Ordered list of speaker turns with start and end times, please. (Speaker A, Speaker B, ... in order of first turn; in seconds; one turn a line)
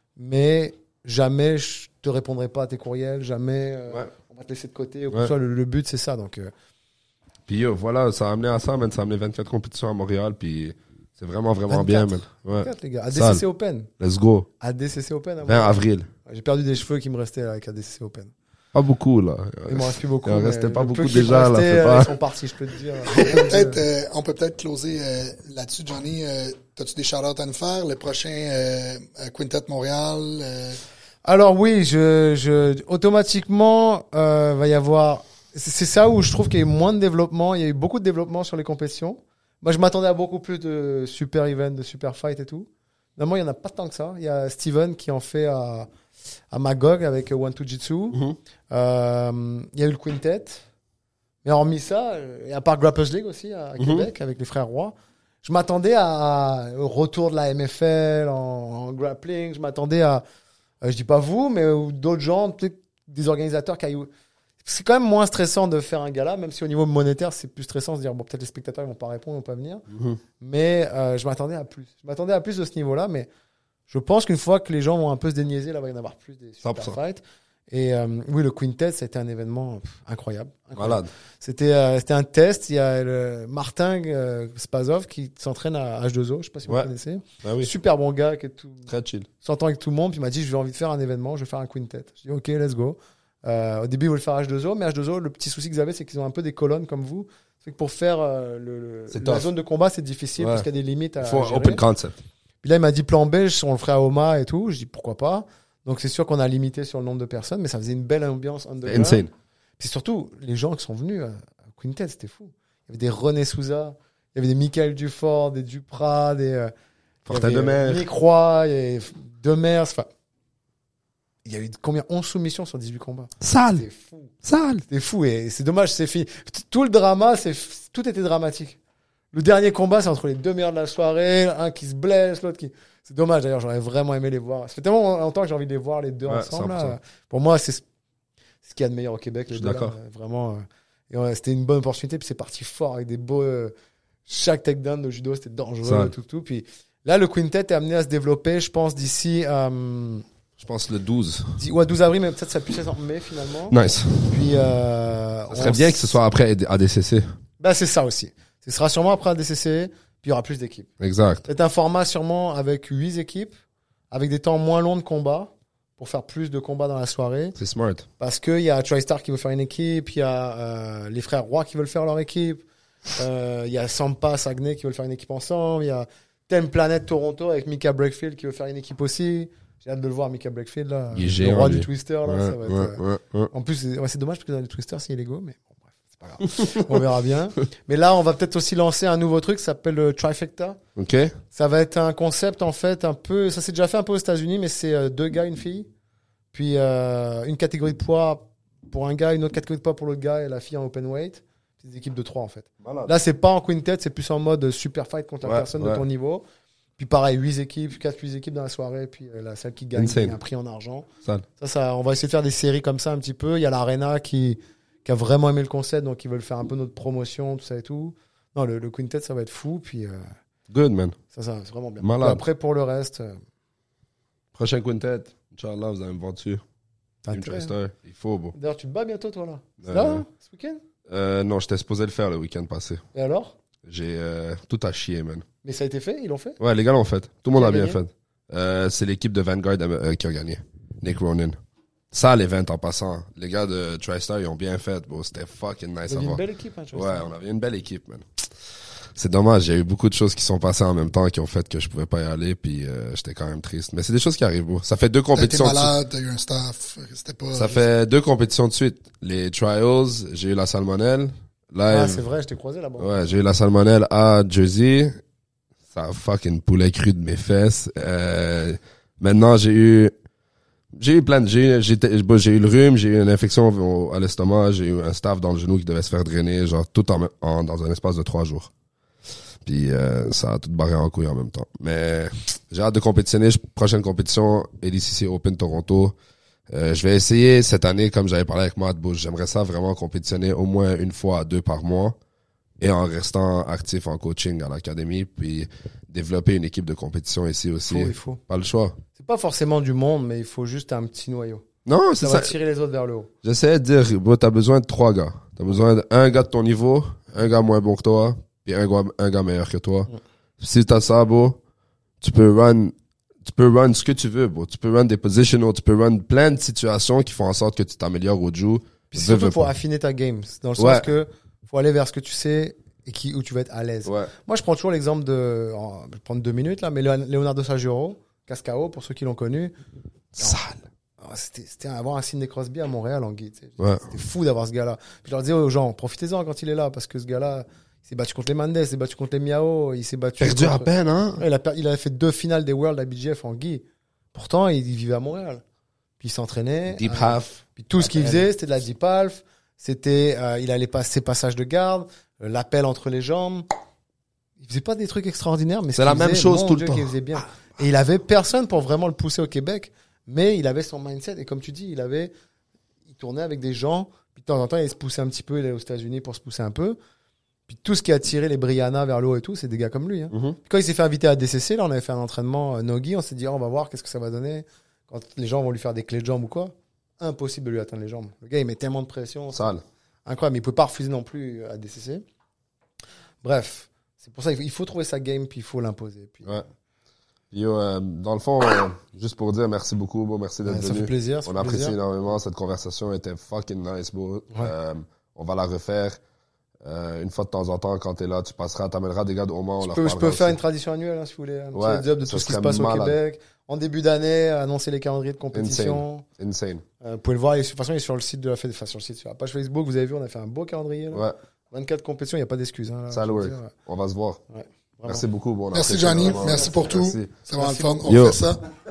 Speaker A: 0.2-6.5
Speaker B: 7.5-13.4
Speaker A: 11.7-13.9
Speaker B: 14.0-14.5
Speaker A: 14.6-18.3
Speaker B: 15.5-16.1
Speaker B: 18.7-22.1
Speaker A: 19.7-23.8
Speaker C: 23.1-30.8
Speaker A: 31.2-45.9
Speaker A: 46.5-48.2
Speaker A: 48.7-50.6
Speaker A: 51.4-60.2
Speaker B: 53.8-54.1
Speaker A: 60.8-64.1
Speaker A: 64.6-69.8
Speaker B: 69.9-70.2
Speaker A: 70.4-73.3
Speaker A: 73.9-88.9
Speaker B: 76.6-77.0
Speaker B: 80.8-81.1
Speaker B: 87.4-87.7
Speaker B: 88.9-89.3
Speaker A: 89.4-101.8
Speaker B: 99.1-99.5
Speaker B: 100.4-100.7
Speaker B: 101.2-102.2
Speaker A: 102.6-109.3
Speaker B: 108.9-109.3
Speaker A: 109.8-116.7
Speaker B: 117.3-118.0
Speaker A: 117.3-120.1
Speaker A: 121.5-124.3
Speaker B: 123.4-123.8
Speaker B: 124.4-124.8
Speaker A: 124.9-128.8
Speaker A: 129.3-137.8
Speaker B: 136.3-137.0
Speaker A: 138.6-143.7
Speaker B: 139.5-139.9
Speaker A: 144.3-150.2
Speaker B: 145.8-146.1
Speaker B: 150.6-151.6
Speaker A: 151.6-153.8
Speaker B: 153.7-154.4
Speaker A: 154.3-156.2
Speaker B: 155.5-157.4
Speaker A: 157.6-160.9
Speaker B: 161.0-161.4
Speaker A: 161.5-163.5
Speaker A: 164.1-167.6
Speaker B: 167.6-168.1
Speaker A: 168.2-172.6
Speaker A: 173.2-183.0
Speaker B: 181.1-183.5
Speaker A: 183.5-190.8
Speaker B: 191.0-191.4
Speaker A: 191.5-195.9
Speaker A: 196.5-206.4
Speaker B: 202.8-203.1
Speaker B: 205.4-206.0
Speaker A: 207.0-211.1
Speaker B: 210.0-210.4
Speaker A: 211.6-220.3
Speaker B: 220.7-221.2
Speaker A: 221.3-223.4
Speaker B: 222.0-222.4
Speaker B: 224.6-226.6
Speaker A: 227.2-227.7
Speaker B: 227.3-228.6
Speaker A: 228.6-230.8
Speaker B: 229.8-230.2
Speaker B: 231.1-233.0
Speaker A: 233.1-233.5
Speaker B: 233.8-235.4
Speaker A: 235.6-236.6
Speaker B: 236.6-241.6
Speaker A: 237.5-238.0
Speaker B: 242.1-246.4
Speaker A: 246.1-247.3
Speaker B: 246.9-248.4
Speaker B: 249.2-255.9
Speaker C: 255.3-257.8
Speaker B: 257.6-262.2
Speaker A: 261.9-263.3
Speaker B: 263.0-265.2
Speaker B: 265.9-270.1
Speaker B: 271.0-278.7
Speaker B: 279.7-286.1
Speaker B: 286.7-292.2
Speaker B: 292.8-299.0
Speaker A: 297.9-298.4
Speaker A: 299.2-301.6
Speaker B: 301.9-302.5
Speaker A: 302.2-303.3
Speaker B: 303.4-310.1
Speaker B: 310.6-311.6
Speaker B: 312.2-312.9
Speaker B: 313.4-319.7
Speaker A: 319.1-329.7
Speaker B: 320.8-321.1
Speaker B: 324.1-324.3
Speaker B: 330.4-330.8
Speaker A: 331.2-345.6
Speaker B: 333.8-334.1
Speaker B: 340.4-341.4
Speaker A: 346.2-353.7
Speaker B: 347.0-348.4
Speaker A: 354.6-362.3
Speaker B: 356.0-357.1
Speaker A: 363.1-367.0
Speaker A: 367.7-379.7
Speaker B: 370.3-370.6
Speaker B: 379.6-379.8
Speaker A: 380.3-382.2
Speaker A: 383.4-386.7
Speaker B: 387.5-396.2
Speaker A: 390.6-392.0
Speaker B: 396.8-400.6
Speaker A: 399.8-406.2
Speaker B: 401.8-403.1
Speaker B: 405.6-406.8
Speaker A: 407.0-413.7
Speaker B: 413.1-414.4
Speaker A: 414.5-415.2
Speaker B: 415.1-417.3
Speaker C: 415.7-418.6
Speaker A: 417.6-418.0
Speaker B: 418.1-418.4